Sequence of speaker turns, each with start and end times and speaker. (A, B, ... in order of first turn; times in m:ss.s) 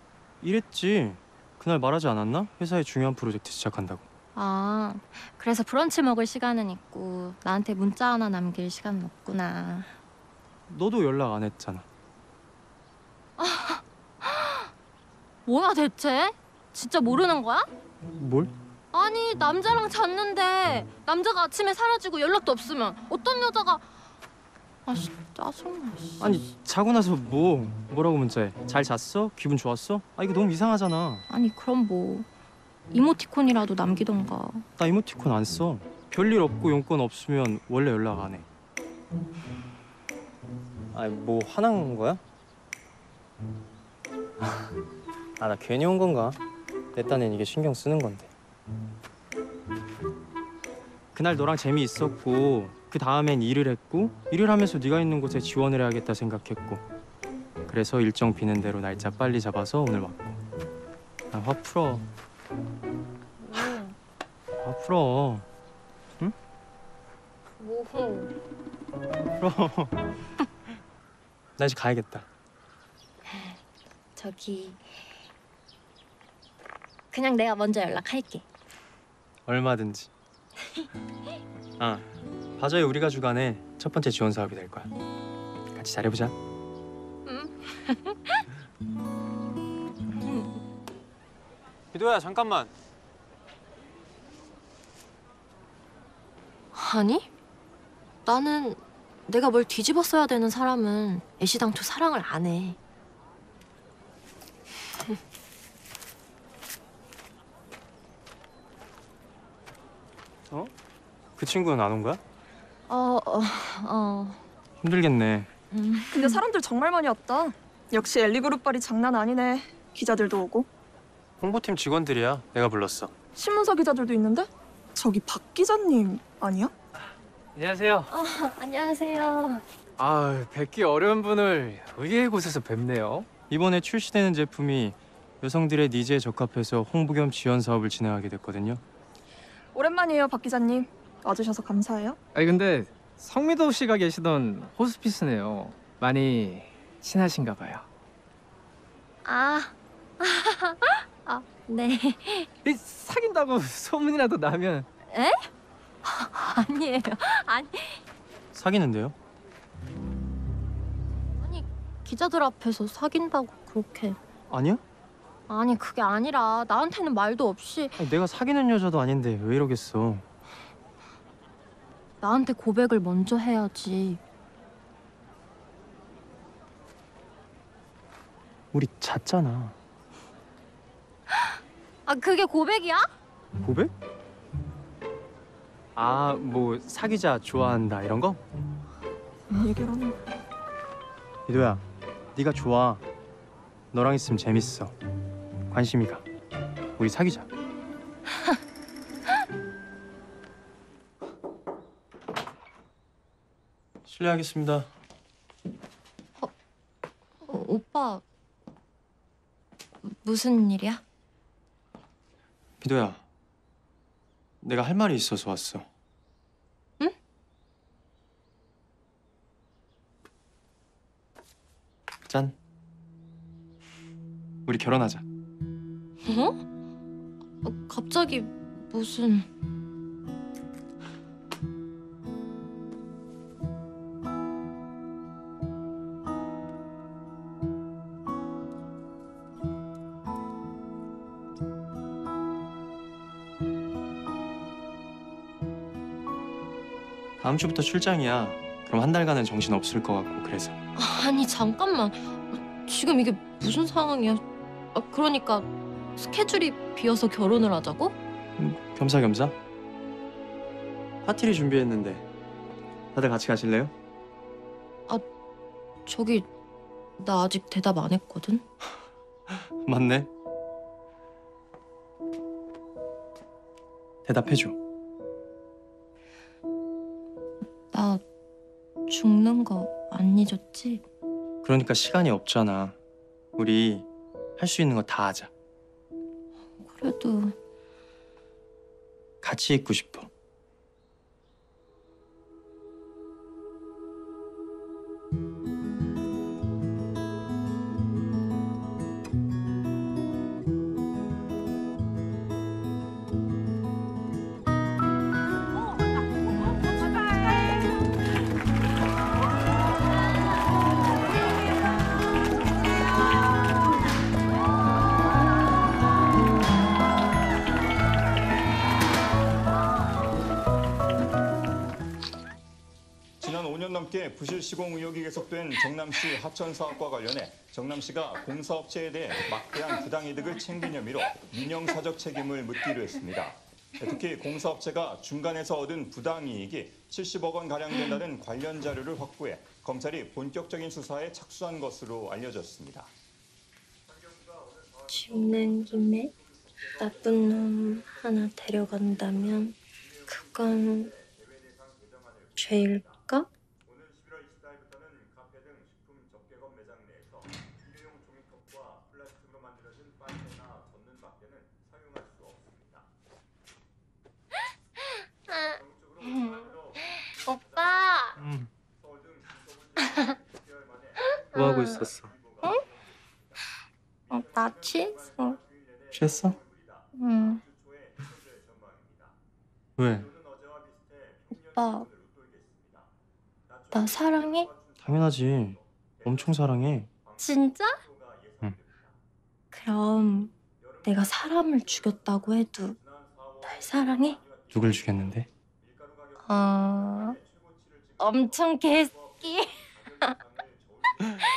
0:00.4-0:04.0 A
0:04.4-0:09.9 B
0:10.7-0:11.9 A
0:13.4-0:14.7 B
0:15.5-0:17.7 B
0:18.2-0:18.5 A
0:18.9-0:23.8 B
0:24.9-0:26.5 B
0:26.2-0:31.2 A
0:31.3-0:32.3 B
0:32.9-0:34.6 B
0:34.8-0:38.5 A
0:40.9-0:42.2 A
0:45.4-0:46.4 A
0:46.9-0:48.3 A
0:51.1-0:56.8 A
0:57.7-1:00.4 A
1:01.3-1:02.0 A
1:03.4-1:04.0 B
1:04.6-1:05.5 A
1:07.6-1:08.3 B
1:09.4-1:10.0 A
1:11.6-1:12.3 A
1:14.2-1:15.0 B
1:17.1-1:18.4 B
1:19.5-1:20.1 A
1:21.8-1:22.0 A
1:22.6-1:24.9 A
1:25.7-1:26.4 A
1:27.3-1:28.4 B
1:30.2-1:30.5 B
1:31.9-1:32.7 A
1:36.7-1:37.3 B
1:38.3-1:42.8 B
1:51.4-1:52.2 A
1:52.9-1:54.4 B
1:54.8-1:55.5 A
1:55.7-1:56.4 B
1:56.1-2:00.7 C
2:01.4-2:03.1 A
2:03.4-2:06.7 C
2:07.6-2:08.1 D
2:08.1-2:09.6 B
2:10.0-2:13.3 D
2:13.5-2:18.8 A
2:19.7-2:22.2 C
2:22.3-2:27.9 D
2:29.2-2:32.5 B
2:32.6-2:34.9 D
2:35.1-2:35.5 B
2:36.0-2:38.0 B
2:38.5-2:39.2 A
2:41.4-2:44.2 B
2:44.5-2:44.8 A
2:45.5-2:48.0 B
2:48.0-2:50.2 A
2:52.2-2:54.2 B
2:58.7-2:59.8 A
3:02.1-3:03.1 B
3:03.6-3:03.9 A
3:06.0-3:08.4 A
3:09.5-3:10.2 C
3:11.5-3:11.8 A
3:12.4-3:13.0 A
3:13.9-3:14.9 A
3:15.7-3:16.2 A
3:17.0-3:17.5 A
3:24.0-3:24.9 A
3:27.4-3:28.2 B
3:30.0-3:31.0 B
3:32.8-3:33.2 A
3:34.6-3:35.9 A
3:42.3-3:42.6 A
3:44.7-3:45.2 A
3:46.2-3:46.6 B
3:47.6-3:49.5 B
4:07.4-4:10.8 A
4:11.0-4:14.4 B
4:14.9-4:18.2 B
4:18.6-4:19.6 A
4:21.2-4:22.3 A
4:23.1-4:23.9 A
4:26.1-4:26.5 B
4:27.2-4:28.6 B
4:29.5-4:30.3 A
4:34.2-4:34.8 A
4:37.9-4:38.2 B
4:39.1-4:41.0 B
4:41.6-4:43.0 A
4:43.6-4:44.1 A
4:44.6-4:45.5 A
4:46.8-4:47.6 B
4:49.4-4:50.3 A
5:23.4-5:43.1 E
5:44.7-5:46.0 E
5:45.1-5:51.1 B
5:51.2-5:52.6 E
5:52.6-5:53.5 B
5:53.9-6:03.0 E
6:05.5-6:05.8 B
6:06.0-6:07.0 E
6:06.3-6:06.7 B
6:07.4-6:08.4 B
6:07.5-6:08.0 E
6:08.4-6:08.7 A
6:09.1-6:11.3 E
6:11.4-6:12.1 B
6:11.5-6:12.3 A
6:12.3-6:13.1 E
6:14.3-6:15.6 B
6:14.8-6:17.0 E
6:16.1-6:16.6 A
6:17.2-6:17.6 B
6:17.6-6:19.3 E
6:20.0-6:20.3 A
6:20.4-6:23.1 E
6:21.6-6:22.1 B
6:23.8-6:24.8 E
6:23.9-6:24.7 B
6:25.0-6:27.1 A
6:27.4-6:28.0 B
6:28.0-6:29.1 E
6:29.7-6:30.5 B
6:31.0-6:33.0 B
6:33.6-6:34.4 B
6:34.7-6:35.5 A
6:36.0-6:38.2 E
6:36.4-6:37.4 B
6:38.2-6:40.4 B
6:39.2-6:41.3 E